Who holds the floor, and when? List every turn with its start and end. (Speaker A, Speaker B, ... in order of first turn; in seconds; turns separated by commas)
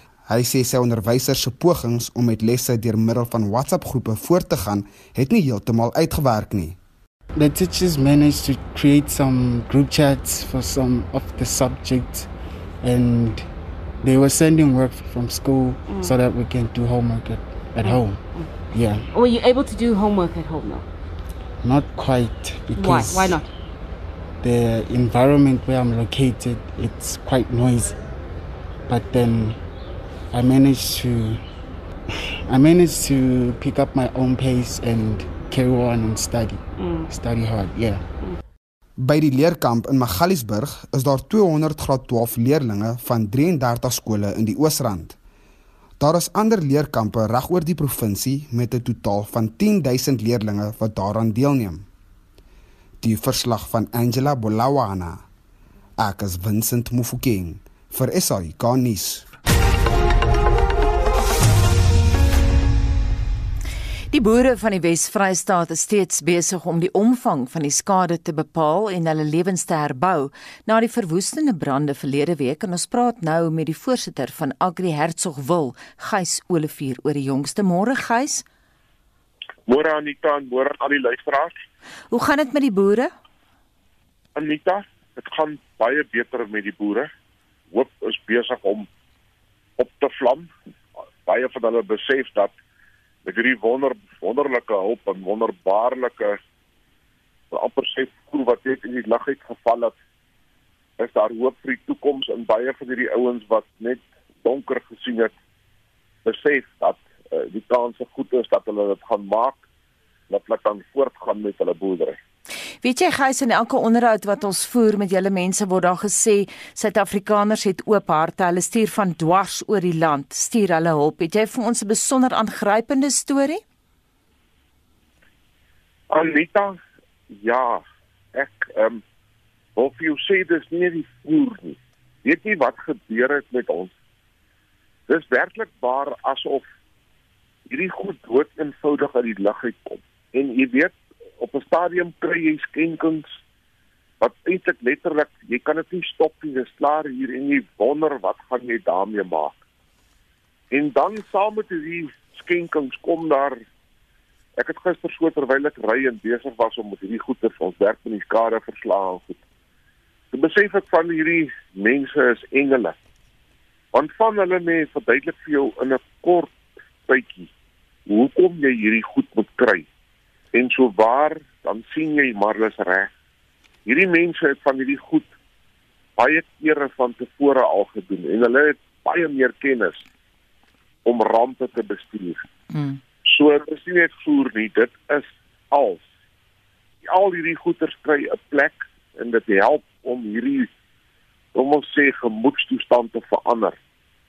Speaker A: 0.3-6.8, Speaker B: 7.3-12.3, Speaker B: 12.8-13.5, Speaker B: 14.0-19.1, Speaker C: 15.9-16.2, Speaker C: 17.8-18.5, Speaker C: 19.1-20.9, Speaker B: 21.6-23.4, Speaker C: 22.8-23.5, Speaker B: 24.4-28.0, Speaker B: 28.9-29.6, Speaker B: 30.3-31.4, Speaker B: 32.1-38.1, Speaker C: 36.8-37.1, Speaker A: 39.0-45.2, Speaker A: 46.0-51.9, Speaker A: 53.0-55.2, Speaker A: 56.0-59.3, Speaker D: 64.1-78.5, Speaker E: 79.7-81.6, Speaker D: 82.1-83.1, Speaker E: 84.4-87.1, Speaker E: 87.7-88.9, Speaker E: 89.8-90.5, Speaker E: 91.3-92.5, Speaker E: 93.3-96.4, Speaker E: 97.5-100.0, Speaker E: 101.0-105.3, Speaker E: 106.2-109.6, Speaker E: 110.3-112.2, Speaker D: 112.8-123.6, Speaker E: 126.1-126.8, Speaker E: 127.3-127.8, Speaker E: 128.3-129.0, Speaker E: 129.8-133.9, Speaker E: 135.1-136.6, Speaker E: 137.7-143.3, Speaker E: 144.2-149.6, Speaker E: 150.7-153.6, Speaker E: 154.6-159.4, Speaker E: 160.3-163.0, Speaker E: 163.9-167.5, Speaker E: 168.1-169.9, Speaker E: 170.5-173.1, Speaker E: 173.9-175.3, Speaker E: 176.2-180.0, Speaker E: 181.1-182.4, Speaker D: 182.7-183.0, Speaker E: 183.2-186.1, Speaker E: 187.1-190.7, Speaker E: 191.5-193.8